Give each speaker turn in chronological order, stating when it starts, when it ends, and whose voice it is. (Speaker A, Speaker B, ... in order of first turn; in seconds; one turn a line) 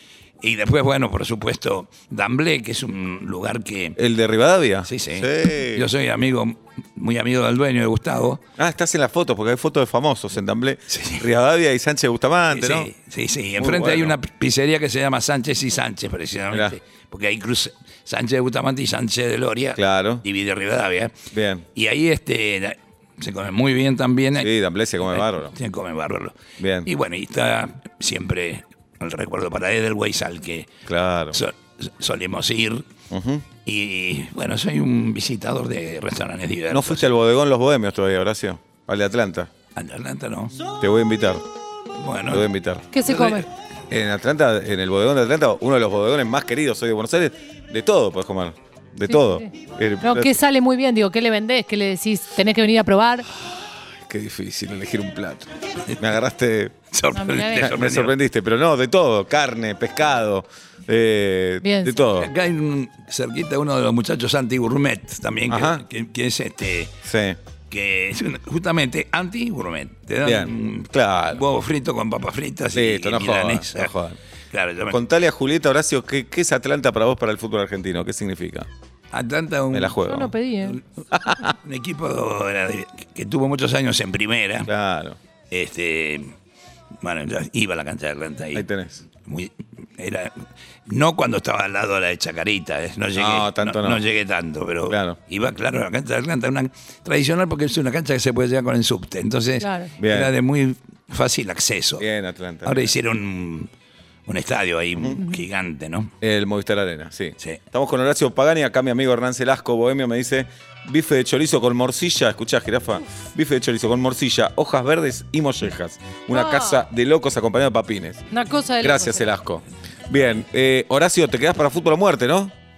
Speaker A: 0.4-4.0
Speaker B: 4.0-5.9
Speaker A: 4.8-8.4
Speaker B: 8.6-12.9
Speaker A: 10.9-11.3
Speaker A: 12.5-21.2
Speaker B: 13.6-14.2
Speaker B: 16.5-16.8
Speaker B: 19.8-20.2
Speaker B: 21.3-21.7
Speaker A: 21.8-30.7
Speaker B: 24.4-25.5
Speaker B: 26.6-26.9
Speaker B: 30.9-31.4
Speaker A: 31.3-32.9
Speaker B: 33.1-33.4
Speaker A: 33.6-37.1
Speaker B: 36.7-39.5
Speaker A: 39.8-40.6
Speaker B: 40.8-41.4
Speaker A: 42.0-42.5
Speaker B: 42.3-42.9
Speaker C: 42.9-43.5
Speaker A: 43.0-43.5
Speaker B: 43.9-50.4
Speaker C: 49.1-49.5
Speaker C: 50.0-53.3
Speaker B: 54.1-56.8
Speaker A: 56.9-58.1
Speaker C: 57.1-57.8
Speaker B: 57.5-62.3
Speaker C: 61.6-62.0
Speaker A: 62.1-66.9
Speaker B: 65.5-65.8
Speaker B: 67.0-67.4
Speaker A: 67.7-73.9
Speaker B: 70.2-71.4
Speaker B: 72.7-74.2
Speaker A: 74.5-75.0
Speaker B: 74.9-78.7
Speaker A: 79.1-80.0
Speaker B: 79.7-80.3
Speaker C: 80.0-80.8
Speaker B: 81.1-81.5
Speaker A: 81.3-84.7
Speaker B: 84.7-85.2
Speaker A: 85.5-86.3
Speaker A: 87.0-88.7
Speaker B: 88.5-89.0
Speaker A: 89.2-102.1
Speaker B: 93.2-94.0
Speaker B: 94.9-95.2
Speaker C: 99.6-99.9
Speaker B: 100.0-100.3
Speaker B: 102.0-103.0
Speaker A: 102.6-103.7
Speaker A: 104.3-106.1
Speaker B: 106.2-118.2
Speaker C: 116.3-116.8
Speaker C: 118.3-119.3
Speaker B: 118.8-122.5